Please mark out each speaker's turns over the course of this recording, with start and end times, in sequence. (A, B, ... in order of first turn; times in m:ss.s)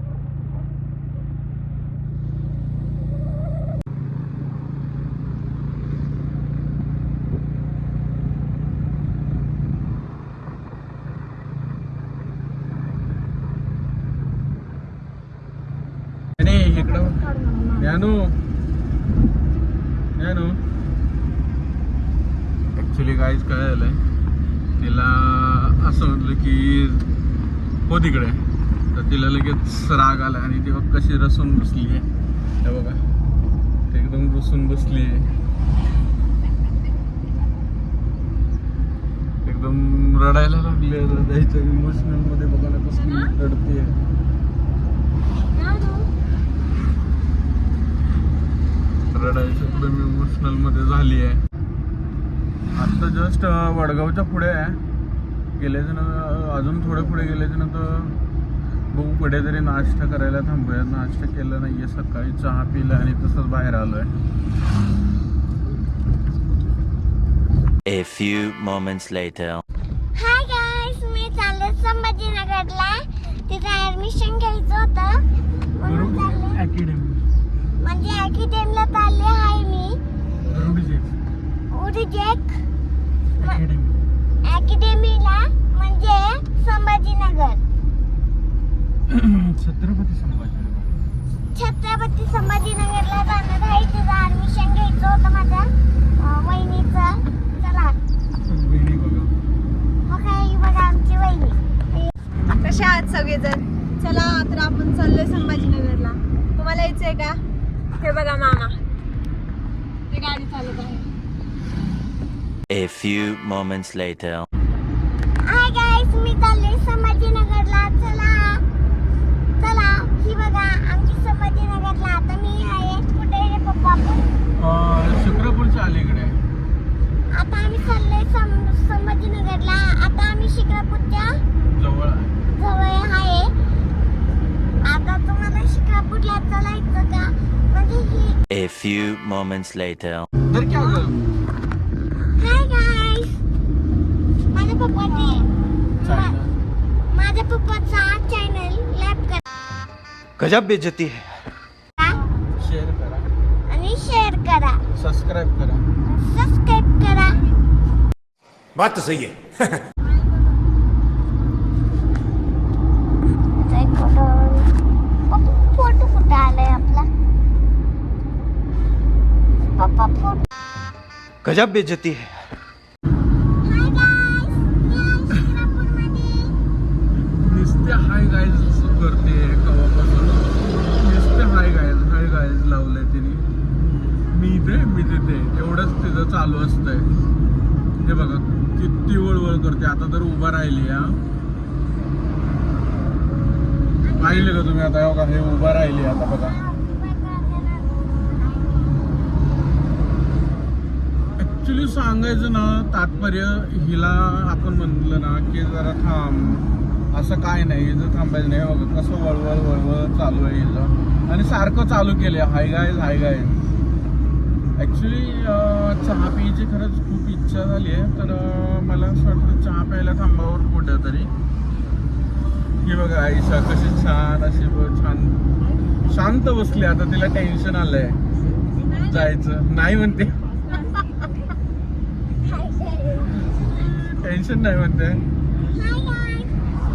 0:16.4-0:18.4 A
0:16.8-0:17.9 B
0:20.2-0:20.6 A
0:22.8-0:24.0 A
0:24.8-0:27.0 A
0:27.9-0:32.0 A
0:32.6-0:33.0 A
0:33.9-0:35.3 A
0:39.4-0:44.0 A
0:43.0-0:43.3 B
0:45.6-0:46.0 B
0:49.1-0:51.4 A
0:52.8-0:54.8 A
0:55.6-0:58.1 A
0:58.9-1:04.1 A
1:07.9-1:09.6 C
1:10.1-1:15.2 D
1:15.8-1:16.6 D
1:15.8-1:17.2 A
1:17.8-1:20.0 D
1:20.4-1:21.1 A
1:21.7-1:22.6 D
1:23.4-1:24.0 A
1:24.4-1:27.6 D
1:29.1-1:30.9 A
1:31.5-1:38.0 D
1:38.4-1:39.3 A
1:40.0-1:42.0 D
1:42.6-1:47.4 B
1:48.0-1:48.8 B
1:50.1-1:51.0 B
1:52.7-1:54.4 C
1:55.4-1:58.6 D
1:59.6-2:04.3 D
2:04.6-2:06.4 A
2:07.3-2:11.4 D
2:11.7-2:12.4 A
2:12.6-2:13.5 D
2:14.8-2:18.4 D
2:18.5-2:20.3 C
2:20.5-2:21.2 A
2:22.4-2:23.4 D
2:24.5-2:25.5 D
2:26.0-2:26.5 A
2:26.0-2:26.3 D
2:27.1-2:29.4 D
2:30.4-2:31.3 E
2:32.5-2:33.3 A
2:33.7-2:34.8 D
2:34.9-2:35.9 A
2:36.1-2:37.5 D
2:38.8-2:39.5 E
2:43.6-2:44.7 D
2:45.3-2:47.1 D
2:49.8-2:50.4 D
2:51.4-2:52.3 E
2:53.6-2:56.6 D
2:57.4-3:03.4 A
3:04.3-3:07.1 A
3:08.0-3:11.2 A
3:14.0-3:14.6 D
3:14.2-3:16.6 A
3:16.5-3:19.0 D
3:21.4-3:33.6 A
3:34.8-3:41.3 A
3:42.8-3:45.4 A
3:46.0-3:48.2 A
3:49.0-3:50.4 A
3:52.4-3:53.5 D
3:54.0-3:55.2 A
3:55.7-3:56.5 D